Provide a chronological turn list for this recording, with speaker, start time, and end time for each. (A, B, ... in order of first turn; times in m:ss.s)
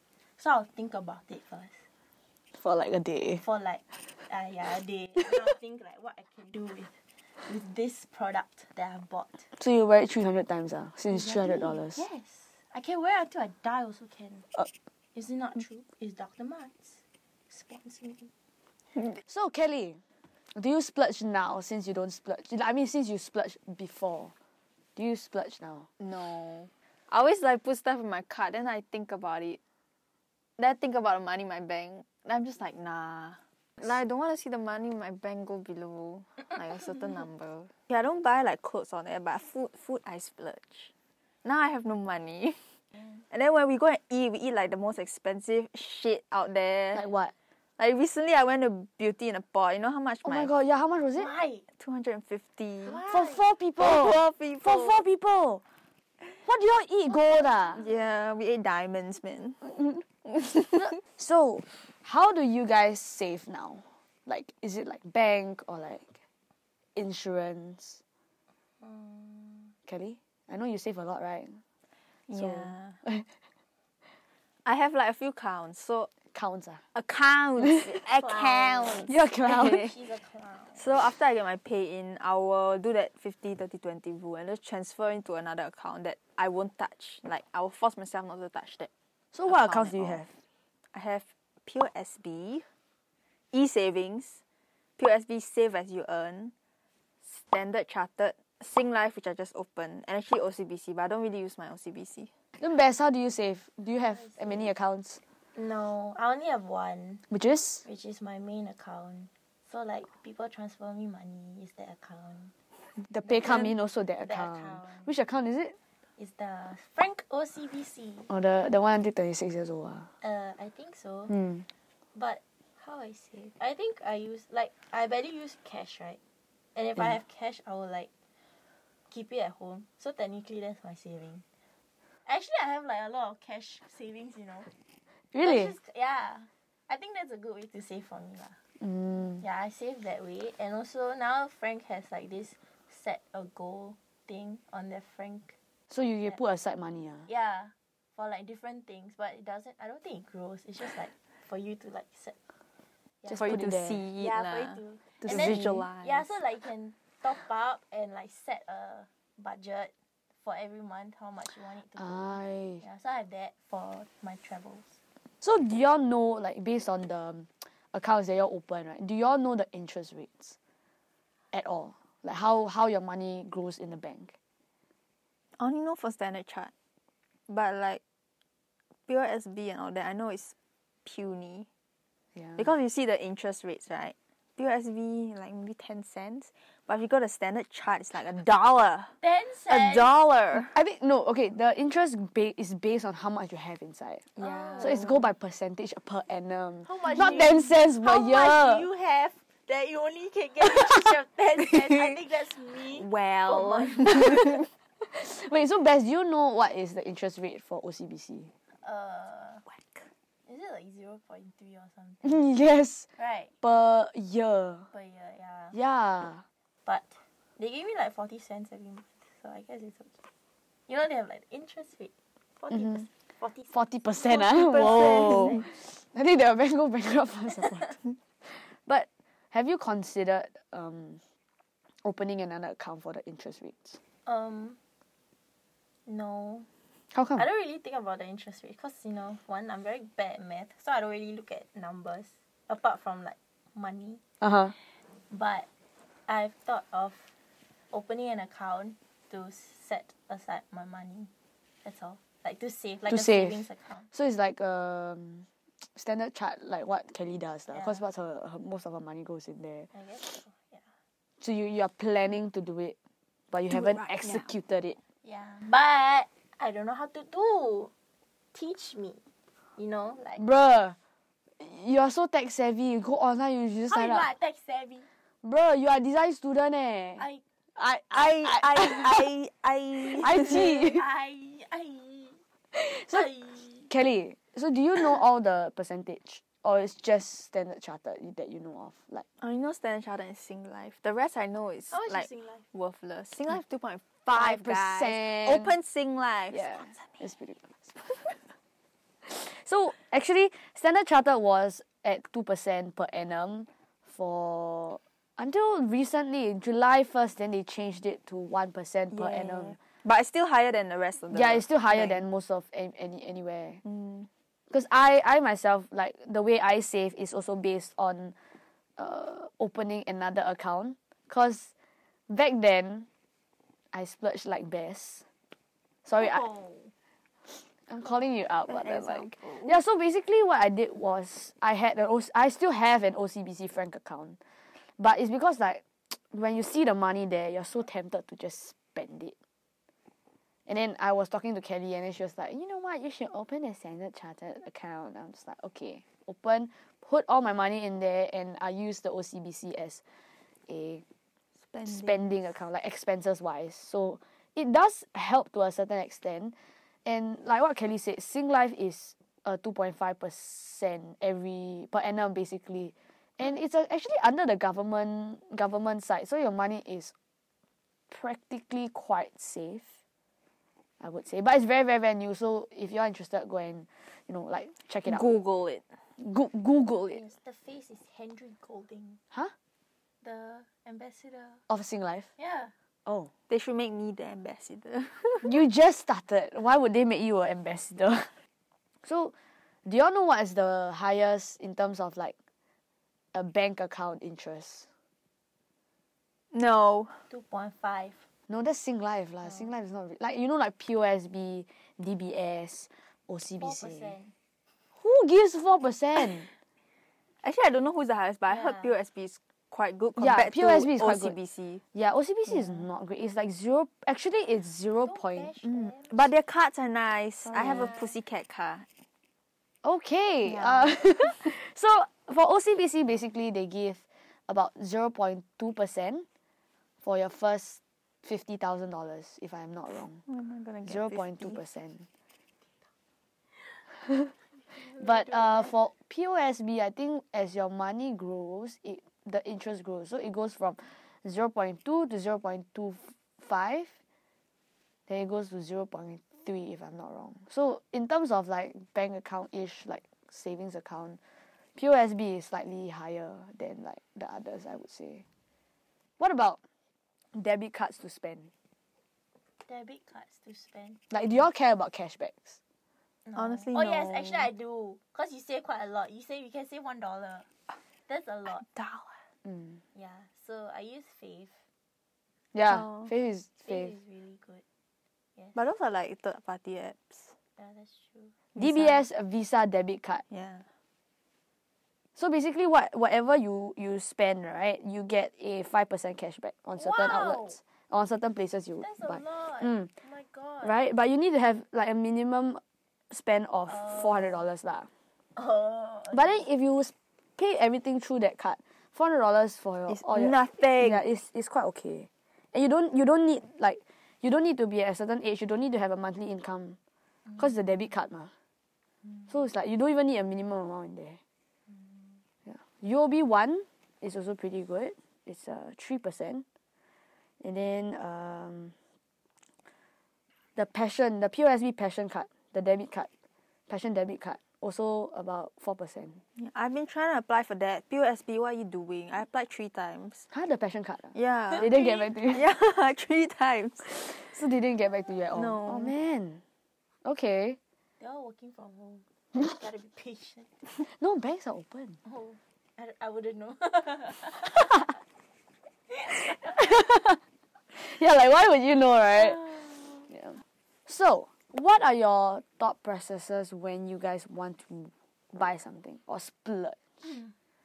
0:00.4-0:01.8 A
0:02.5-0:03.4 B
0:03.4-0:09.5 A
0:09.5-0:12.0 B
0:11.1-0:14.5 A
0:15.1-0:18.3 A
0:19.2-0:20.0 B
0:20.5-0:24.3 B
0:25.0-0:25.9 B
0:26.0-0:29.6 C
0:30.6-0:40.9 C
0:41.4-0:42.8 C
0:43.3-0:47.0 C
0:46.9-0:47.3 B
0:47.8-0:50.5 C
0:50.2-0:51.3 B
0:51.2-0:51.6 A
0:51.8-0:53.0 C
0:52.8-0:53.4 A
0:53.1-0:55.6 B
0:53.8-0:55.0 C
0:56.4-0:57.8 B
0:57.8-0:59.7 C
1:00.3-1:00.8 C
1:00.7-1:06.2 B
1:07.0-1:08.0 B
1:08.8-1:09.7 A
1:09.9-1:11.6 B
1:12.3-1:13.0 C
1:12.3-1:13.3 B
1:14.6-1:16.1 C
1:16.3-1:16.8 B
1:16.9-1:19.1 C
1:17.6-1:17.9 B
1:18.1-1:20.9 A
1:19.1-1:19.9 B
1:20.8-1:28.9 C
1:29.3-1:30.3 B
1:29.5-1:30.2 C
1:30.9-1:32.7 C
1:33.5-1:34.4 C
1:35.0-1:36.5 C
1:37.2-1:42.3 C
1:42.6-1:45.2 B
1:44.1-1:44.7 A
1:45.5-1:47.2 A
1:47.3-1:47.8 B
1:47.8-1:52.5 A
1:53.1-1:55.8 B
1:53.2-1:55.1 A
1:56.2-1:58.3 A
1:58.3-2:00.1 B
2:00.2-2:01.4 A
2:01.3-2:01.6 B
2:02.1-2:06.2 A
2:06.7-2:08.1 A
2:09.1-2:11.4 A
2:12.2-2:14.7 A
2:15.3-2:15.7 B
2:15.4-2:18.6 A
2:18.8-2:19.4 B
2:19.4-2:25.6 A
2:25.9-2:27.3 B
2:27.3-2:32.4 A
2:33.2-2:33.6 A
2:33.2-2:34.0 B
2:33.4-2:36.3 C
2:34.2-2:45.0 A
2:35.2-2:35.9 B
2:42.0-2:42.8 B
2:45.4-2:50.6 B
2:51.5-2:54.3 B
2:55.6-2:56.7 C
2:57.5-2:58.0 C
2:59.1-3:00.5 C
3:01.0-3:01.7 C
3:02.4-3:02.7 B
3:02.6-3:09.2 C
3:09.2-3:10.1 A
3:09.7-3:10.8 C
3:10.6-3:18.9 B
3:14.4-3:15.2 C
3:14.4-3:15.1 A
3:16.8-3:24.6 A
3:22.9-3:24.6 C
3:24.5-3:28.5 B
3:28.7-3:29.6 A
3:29.8-3:30.0 C
3:30.5-3:32.5 A
3:32.2-3:33.1 B
3:33.2-3:33.5 A
3:33.6-3:34.9 B
3:34.9-3:35.8 A
3:35.7-3:36.4 B
3:36.8-3:40.2 A
3:40.9-3:43.7 A
3:42.7-3:43.0 B
3:43.7-3:51.2 B
3:44.3-3:45.6 C
3:44.4-3:45.6 A
3:52.0-3:54.0 B
3:54.2-3:54.8 A
3:56.1-3:56.7 A
3:57.1-3:57.4 B
3:57.4-4:04.2 A
4:04.4-4:04.7 B
4:05.3-4:05.7 A
4:06.3-4:07.3 A
4:07.9-4:11.3 A
4:11.8-4:14.1 A
4:13.1-4:19.9 B
4:17.7-4:18.0 A
4:19.9-4:20.9 A
4:21.4-4:23.0 B
4:23.5-4:25.0 B
4:23.7-4:24.5 C
4:25.2-4:27.9 A
4:28.5-4:29.2 A
4:29.8-4:30.4 A
4:30.4-4:31.0 B
4:31.6-4:34.3 B
4:33.9-4:35.1 A
4:35.4-4:37.2 B
4:37.2-4:37.4 A
4:37.8-4:39.3 B
4:38.1-4:40.6 C
4:40.0-4:41.0 B
4:40.2-4:42.4 A
4:42.7-4:43.3 B
4:42.9-4:43.9 A
4:43.9-4:49.2 B
4:49.4-4:57.2 C
4:51.9-4:52.6 A
4:54.3-4:55.8 B
4:56.5-4:58.4 B
4:59.2-5:09.8 B
5:09.1-5:12.2 C
5:11.3-5:13.8 B
5:13.8-5:14.3 C
5:14.7-5:18.4 B
5:19.0-5:21.7 B
5:22.3-5:23.1 B
5:23.9-5:25.2 B
5:26.0-5:26.4 B
5:26.2-5:26.9 A
5:27.5-5:39.3 B
5:28.7-5:29.8 C
5:40.7-5:50.0 B
5:50.7-5:51.0 B
5:51.7-5:52.4 C
5:51.8-6:07.1 B
6:08.1-6:09.9 B
6:11.0-6:15.2 B
6:15.0-6:15.8 C
6:16.2-6:17.2 B
6:17.1-6:19.2 A
6:20.2-6:21.6 A
6:21.7-6:22.3 B
6:22.4-6:22.7 A
6:23.0-6:23.3 B
6:23.5-6:25.6 C
6:25.4-6:28.3 B
6:29.0-6:29.3 B
6:29.8-6:32.3 B
6:33.3-6:34.9 B
6:36.5-6:37.3 C
6:37.3-6:38.2 A
6:38.5-6:44.1 B
6:43.6-6:44.3 A
6:45.0-6:46.5 B
6:47.4-6:51.8 C
6:48.5-6:49.0 A
6:50.2-6:51.4 B
6:51.9-6:55.9 B
6:55.0-6:56.2 A
6:56.1-6:58.9 C
6:57.5-6:57.9 B
6:57.6-6:58.1 A
6:59.8-7:06.2 B
7:00.4-7:01.3 C
7:07.0-7:10.2 B
7:10.3-7:11.6 C
7:10.8-7:12.1 B
7:14.2-7:24.0 B
7:14.6-7:15.8 A
7:25.1-7:31.2 B
7:31.8-7:35.2 B
7:36.2-7:36.6 B
7:37.3-7:38.5 B
7:39.6-7:41.0 A
7:41.1-7:42.6 B
7:43.2-7:47.5 A
7:43.3-7:44.5 C
7:48.1-7:48.6 A
7:48.6-7:49.2 C
7:49.4-7:49.8 B
7:49.9-7:51.6 A
7:52.5-7:54.0 B
7:52.6-7:53.1 C
7:53.6-7:54.6 A
7:55.4-7:55.6 A
7:55.5-7:57.3 C
7:57.6-7:58.3 A
7:58.5-7:59.0 C
7:58.6-8:00.2 B
8:00.3-8:00.7 C
8:02.2-8:09.9 B
8:06.8-8:07.6 A
8:08.8-8:10.8 A
8:10.6-8:14.9 B
8:13.7-8:14.4 A
8:15.4-8:16.5 A
8:16.1-8:26.8 B
8:19.9-8:21.0 C
8:27.4-8:28.3 B
8:29.3-8:31.2 B
8:32.4-8:36.4 B
8:37.4-8:38.7 B
8:40.6-8:43.1 B
8:43.7-8:46.2 B
8:46.4-8:50.3 C
8:50.3-8:52.5 B
8:51.1-8:54.1 C
8:51.5-8:52.3 A
8:53.9-8:56.4 B
8:55.3-8:55.9 C
8:57.0-8:57.6 B
8:58.0-9:00.5 A
9:00.8-9:02.0 B
9:02.0-9:04.9 A
9:05.9-9:06.7 A
9:06.4-9:07.2 B
9:07.7-9:09.5 B
9:09.2-9:10.1 A
9:10.1-9:10.4 B
9:10.9-9:17.2 B